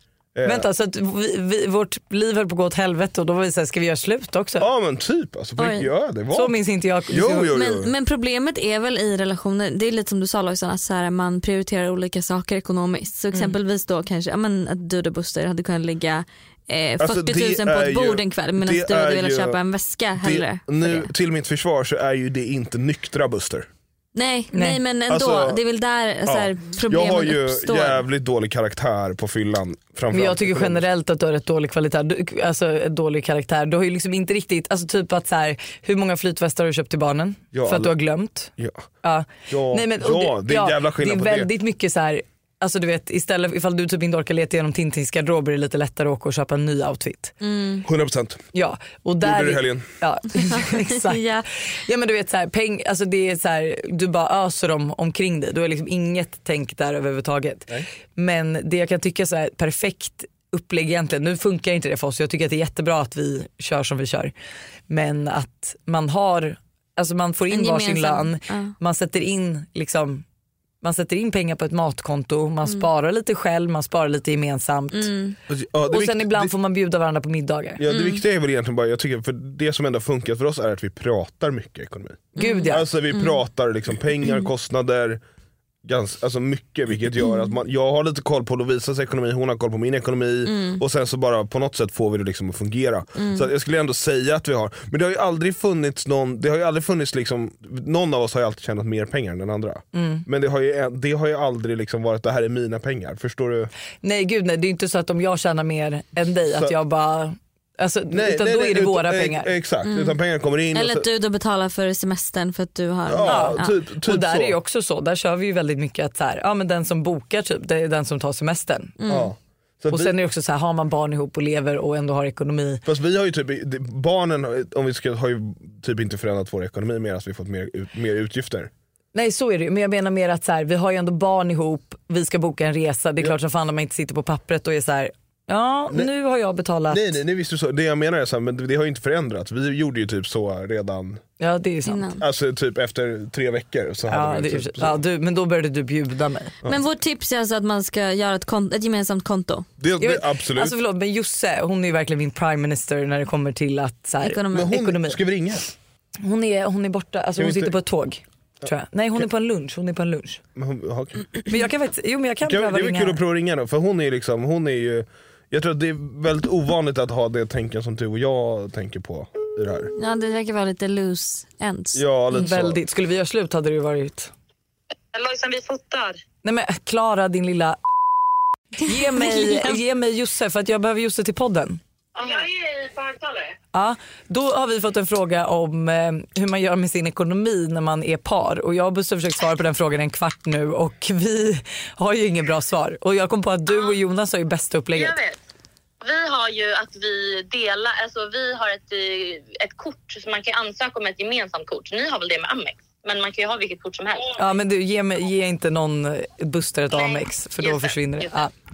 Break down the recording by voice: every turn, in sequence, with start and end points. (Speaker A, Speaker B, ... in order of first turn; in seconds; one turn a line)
Speaker A: 0.3-0.7
Speaker B: 0.5-4.7
Speaker A: 4.6-7.9
Speaker C: 5.6-5.9
Speaker B: 6.3-7.5
Speaker C: 7.4-21.1
Speaker A: 17.0-19.6
Speaker A: 20.2-23.7
Speaker C: 24.1-28.0
Speaker B: 24.5-24.8
Speaker A: 25.1-25.6
Speaker A: 26.3-30.8
Speaker B: 30.1-38.5
Speaker A: 37.5-38.0
Speaker A: 38.6-38.9
Speaker B: 39.0-47.3
Speaker A: 39.5-41.5
Speaker C: 47.4-47.9
Speaker A: 47.8-48.4
Speaker B: 48.5-64.3
Speaker A: 49.2-49.9
Speaker C: 50.5-51.4
Speaker B: 64.9-70.2
Speaker C: 67.5-68.7
Speaker B: 70.8-75.1
Speaker C: 74.9-75.4
Speaker A: 75.5-76.5
Speaker B: 75.9-77.8
Speaker A: 77.8-85.2
Speaker C: 77.9-78.2
Speaker B: 82.4-82.8
Speaker C: 82.4-83.4
Speaker A: 85.8-103.7
Speaker C: 90.5-90.8
Speaker C: 93.2-93.5
Speaker B: 99.9-100.2
Speaker B: 104.0-109.5
Speaker A: 106.5-106.8
Speaker A: 108.1-111.1
Speaker C: 109.8-110.2
Speaker C: 110.7-113.8
Speaker A: 113.1-114.6
Speaker B: 113.2-119.0
Speaker C: 119.0-119.3
Speaker A: 119.1-120.2
Speaker B: 119.9-122.8
Speaker A: 122.8-128.7
Speaker B: 129.1-137.2
Speaker A: 136.9-141.2
Speaker B: 141.4-142.1
Speaker C: 141.9-142.2
Speaker A: 142.2-145.0
Speaker B: 144.1-146.6
Speaker C: 146.7-149.7
Speaker A: 149.8-150.8
Speaker B: 150.0-155.2
Speaker C: 154.2-154.8
Speaker A: 154.5-155.7
Speaker B: 156.2-160.4
Speaker A: 157.4-157.8
Speaker A: 158.6-159.2
Speaker A: 160.6-161.4
Speaker B: 161.5-163.2
Speaker A: 162.4-169.9
Speaker C: 170.0-172.0
Speaker A: 171.9-172.8
Speaker B: 172.3-174.3
Speaker D: 175.2-176.0
Speaker B: 176.4-177.8
Speaker B: 178.8-181.8
Speaker C: 179.1-179.8
Speaker D: 182.2-183.4
Speaker B: 183.7-195.2
Speaker D: 193.7-194.0
Speaker D: 194.9-195.4
Speaker D: 196.0-204.3
Speaker B: 204.4-208.5
Speaker D: 206.9-208.4